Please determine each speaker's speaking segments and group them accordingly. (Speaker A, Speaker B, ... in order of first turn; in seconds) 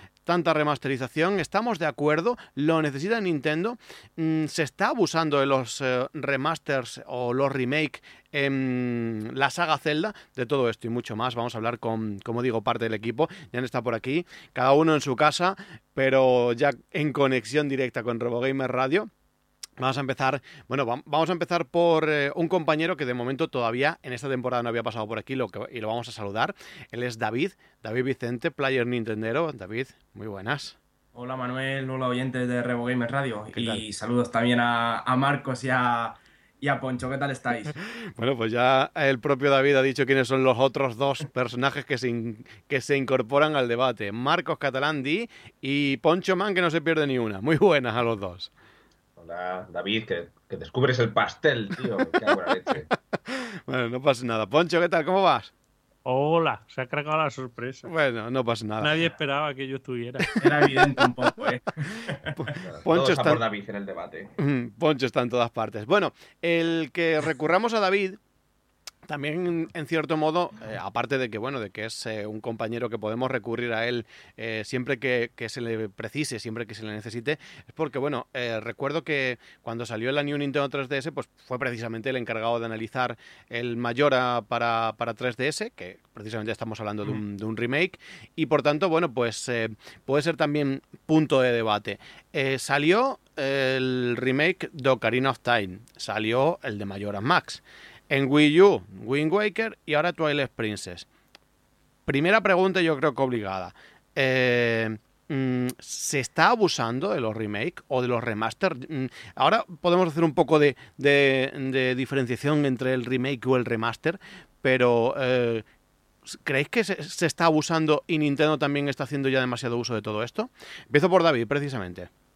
Speaker A: 0.3-19.1, 19.8-30.8, 33.5-33.8, 37.8-48.5, 53.3-55.5, 57.9-59.0, 62.4-63.4, 64.4-68.2, 69.1-101.1, 102.1-115.6, 116.3-122.1
Speaker B: 31.1-37.8, 60.4-62.5
Speaker C: 49.2-52.9, 62.6-64.3
Speaker D: 56.0-57.9, 58.8-60.4